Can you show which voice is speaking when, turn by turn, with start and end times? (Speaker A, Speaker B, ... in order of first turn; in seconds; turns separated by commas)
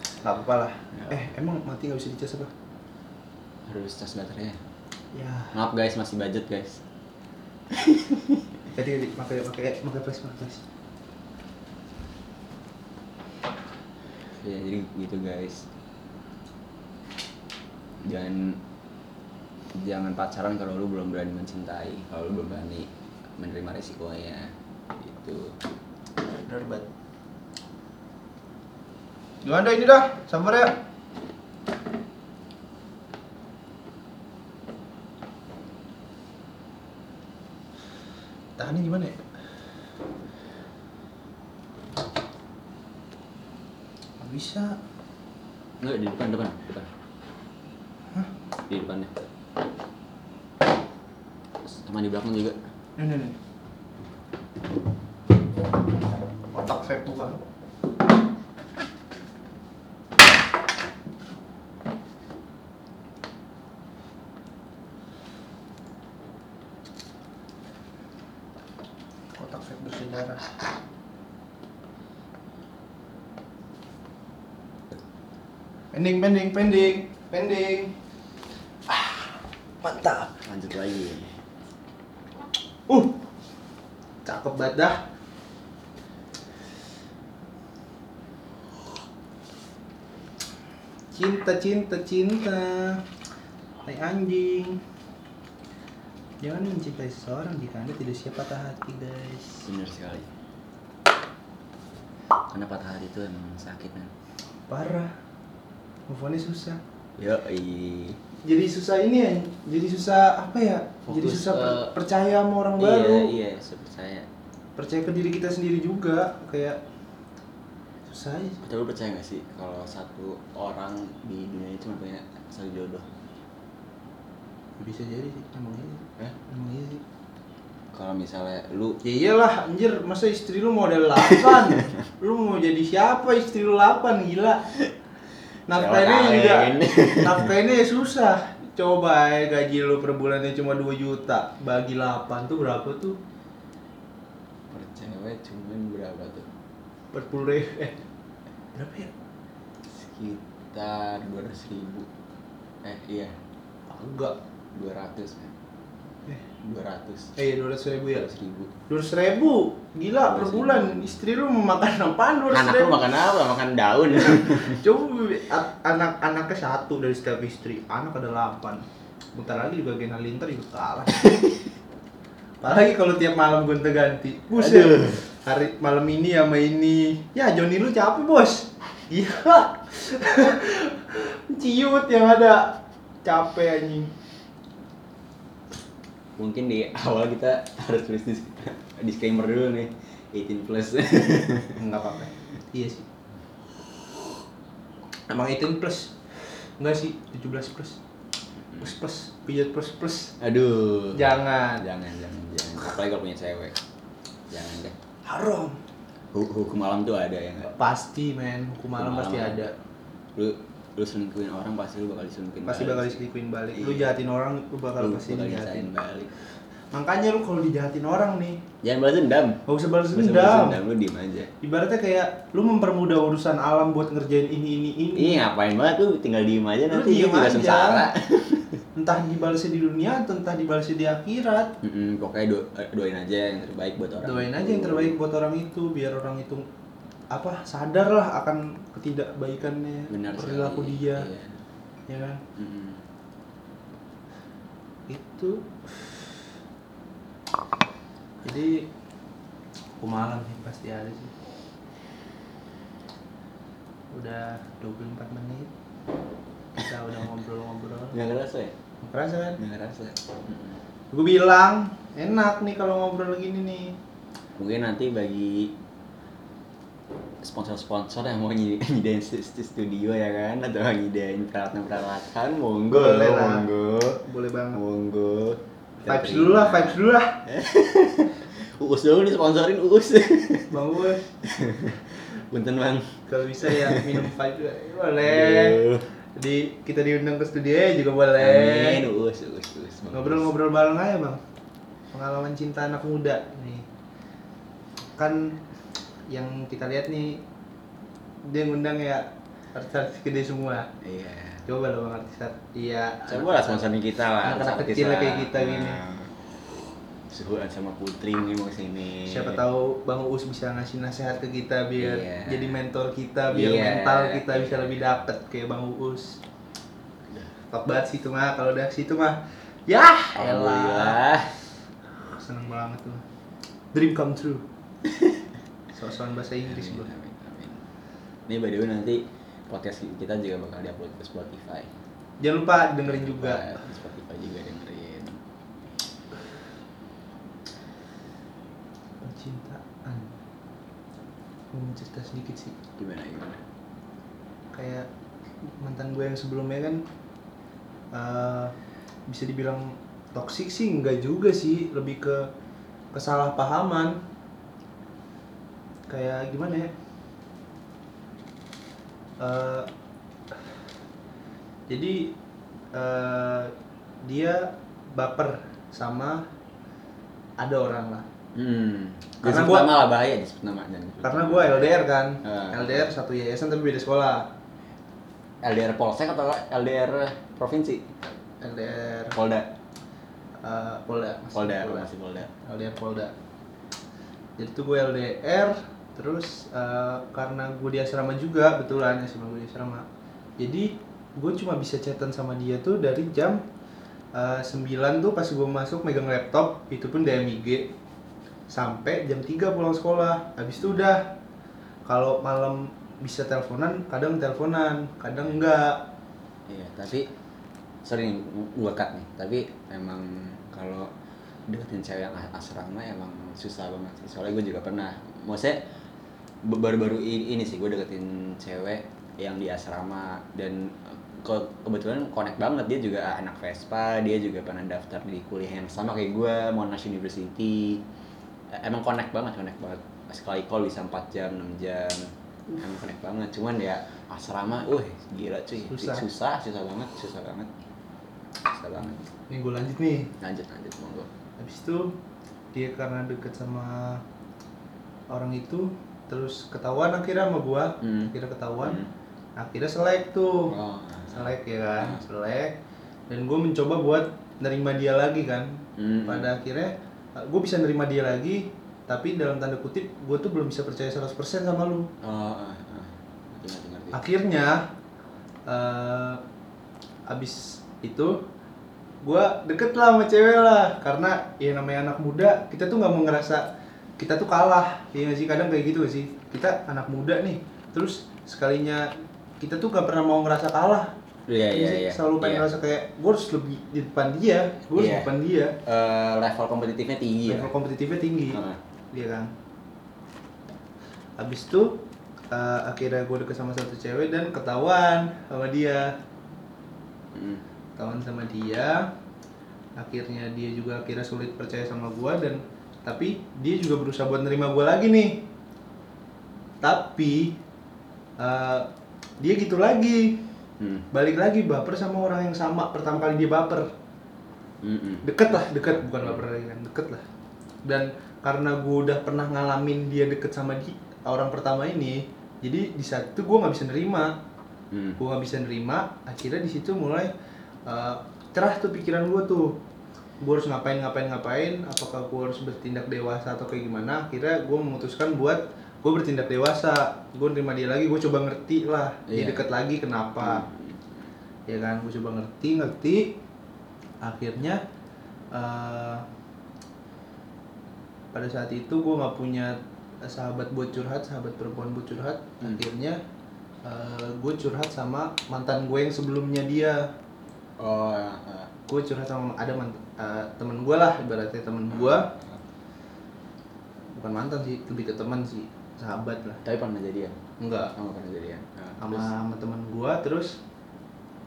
Speaker A: 0.2-2.5, Speaker B: 3.7-4.6, Speaker A: 5.1-5.5, Speaker B: 5.5-6.8, Speaker B: 7.7-8.6, Speaker A: 8.7-10.7, Speaker B: 14.4-15.7, Speaker B: 18.0-18.6, Speaker B: 19.7-25.6, Speaker A: 26.4-26.9, Speaker A: 29.4-30.8, Speaker A: 38.6-39.2, Speaker A: 44.2-44.8, Speaker B: 45.8-46.9, Speaker B: 48.7-49.2, Speaker B: 51.7-52.6, Speaker A: 53.0-53.4, Speaker A: 56.5-57.4, Speaker A: 69.3-70.5, Speaker A: 75.9-78.0, Speaker A: 78.9-80.4, Speaker B: 80.4-81.4, Speaker A: 82.9-83.2, Speaker A: 84.2-85.0, Speaker A: 91.1-93.0, Speaker A: 93.8-94.8, Speaker A: 96.4-99.6, Speaker B: 99.6-100.3, Speaker B: 102.5-104.1, Speaker A: 104.7-105.1, Speaker A: 106.1-106.8, Speaker B: 107.2-108.2, Speaker A: 108.4-113.3, Speaker B: 111.0-111.9, Speaker B: 112.8-114.3, Speaker A: 114.8-116.8, Speaker A: 118.0-118.6, Speaker B: 118.6-123.1, Speaker A: 124.8-127.0, Speaker B: 127.9-129.0, Speaker A: 129.0-134.7, Speaker B: 131.2-131.9, Speaker A: 135.7-143.2, Speaker B: 135.7-137.5, Speaker B: 144.7-146.5, Speaker A: 147.1-148.0, Speaker A: 148.7-149.1, Speaker B: 149.9-152.1, Speaker B: 152.8-153.3, Speaker A: 153.9-154.4, Speaker B: 154.7-155.5, Speaker B: 156.6-157.3, Speaker A: 157.3-158.3, Speaker B: 158.1-158.7, Speaker A: 158.9-163.1, Speaker B: 160.2-161.1, Speaker B: 162.5-164.8, Speaker A: 164.2-171.3, Speaker A: 172.6-184.1, Speaker B: 174.6-175.3, Speaker B: 186.4-191.8, Speaker A: 191.8-193.1, Speaker A: 195.3-198.0, Speaker A: 198.8-200.3, Speaker B: 200.4-203.8, Speaker A: 201.1-201.8, Speaker B: 204.5-204.9, Speaker A: 205.2-205.8, Speaker B: 206.3-207.7, Speaker A: 207.7-209.7, Speaker B: 208.9-209.7, Speaker B: 210.3-214.1, Speaker A: 212.6-215.9, Speaker B: 215.0-216.3, Speaker A: 216.9-218.6, Speaker B: 218.8-221.5, Speaker A: 219.7-220.8, Speaker A: 221.6-225.4, Speaker B: 225.1-228.8, Speaker A: 226.9-228.1, Speaker A: 228.9-231.7, Speaker B: 231.8-235.2, Speaker A: 234.2-236.7, Speaker A: 237.3-241.3, Speaker B: 240.1-241.6, Speaker A: 242.1-242.4, Speaker B: 242.6-243.0, Speaker A: 245.1-246.4, Speaker A: 248.4-248.9, Speaker A: 250.0-251.3, Speaker A: 254.1-255.7, Speaker A: 256.8-258.2, Speaker B: 258.1-258.7, Speaker A: 259.0-259.6, Speaker B: 259.6-260.8, Speaker A: 261.1-264.0, Speaker B: 264.6-265.7, Speaker B: 267.4-274.2, Speaker A: 272.9-273.7, Speaker A: 274.2-274.8, Speaker B: 274.7-284.3, Speaker A: 276.1-277.4, Speaker A: 280.7-281.2, Speaker A: 283.3-285.8, Speaker B: 285.2-286.1, Speaker A: 286.3-289.1, Speaker B: 288.4-290.5, Speaker A: 290.1-291.4, Speaker A: 292.1-293.9, Speaker A: 295.1-295.6, Speaker A: 296.3-297.4, Speaker A: 298.4-300.9, Speaker B: 301.0-301.6, Speaker A: 301.6-303.9, Speaker B: 303.3-306.4, Speaker A: 304.4-306.0, Speaker B: 307.3-309.6, Speaker A: 309.2-316.4, Speaker B: 312.0-312.8, Speaker B: 313.5-314.9, Speaker A: 317.7-321.2, Speaker B: 320.3-321.6, Speaker A: 322.2-323.2, Speaker A: 323.9-324.6, Speaker B: 325.1-325.4, Speaker A: 325.9-327.1, Speaker B: 326.6-327.8, Speaker B: 328.5-331.9, Speaker A: 332.4-333.7, Speaker B: 333.0-335.4, Speaker A: 339.2-340.3, Speaker A: 341.7-342.8, Speaker B: 343.0-343.6, Speaker A: 344.7-345.1, Speaker A: 345.6-347.1, Speaker A: 348.1-348.7, Speaker A: 349.3-352.5, Speaker A: 353.1-354.2, Speaker A: 356.1-356.9, Speaker A: 359.4-359.9, Speaker A: 361.9-362.4, Speaker A: 362.9-366.4, Speaker A: 367.6-368.2, Speaker B: 368.5-371.9, Speaker A: 369.4-369.9, Speaker A: 371.2-374.5, Speaker B: 372.4-373.1, Speaker B: 375.6-378.1, Speaker A: 378.6-379.4, Speaker B: 379.3-379.7, Speaker A: 380.6-383.3, Speaker B: 381.5-382.5, Speaker A: 384.6-390.1, Speaker A: 390.6-393.6, Speaker A: 394.3-397.9, Speaker A: 398.7-401.3, Speaker A: 402.1-406.1, Speaker B: 406.7-407.3, Speaker B: 408.0-411.1, Speaker B: 411.7-415.8, Speaker B: 416.6-428.0, Speaker B: 428.7-437.7, Speaker A: 435.9-436.2, Speaker B: 438.6-439.3, Speaker A: 439.5-440.3, Speaker B: 440.4-441.3, Speaker A: 441.6-442.1, Speaker A: 442.7-444.2, Speaker A: 445.3-449.0, Speaker B: 448.0-449.1, Speaker A: 449.6-450.7, Speaker B: 450.7-451.5, Speaker A: 451.3-452.8, Speaker A: 453.3-462.1, Speaker B: 456.0-456.5, Speaker B: 462.2-464.2, Speaker A: 464.1-464.9, Speaker A: 465.7-466.4, Speaker A: 467.3-468.4, Speaker A: 469.2-481.1, Speaker B: 481.5-482.7, Speaker A: 481.7-485.8, Speaker B: 484.9-487.7, Speaker A: 487.5-489.5, Speaker B: 488.5-488.8, Speaker A: 491.4-496.2, Speaker B: 497.3-497.6, Speaker A: 498.0-499.1, Speaker A: 500.0-505.5, Speaker A: 506.8-507.6, Speaker A: 508.4-508.9, Speaker A: 509.4-510.4, Speaker B: 510.8-511.1, Speaker A: 511.1-513.9, Speaker B: 514.8-516.4, Speaker A: 515.2-517.2, Speaker A: 517.8-524.4, Speaker B: 524.9-525.2, Speaker A: 525.2-527.3, Speaker A: 527.9-529.8, Speaker A: 530.4-540.7, Speaker B: 539.3-539.7, Speaker B: 540.4-541.0, Speaker A: 541.7-543.4, Speaker A: 544.2-544.8, Speaker A: 545.5-546.3, Speaker A: 548.3-553.2, Speaker A: 553.8-557.1, Speaker B: 557.8-558.7, Speaker A: 558.9-562.3, Speaker B: 561.9-562.6, Speaker A: 564.1-566.6, Speaker B: 566.6-567.4, Speaker A: 567.6-567.9, Speaker B: 567.9-569.3, Speaker A: 569.0-570.6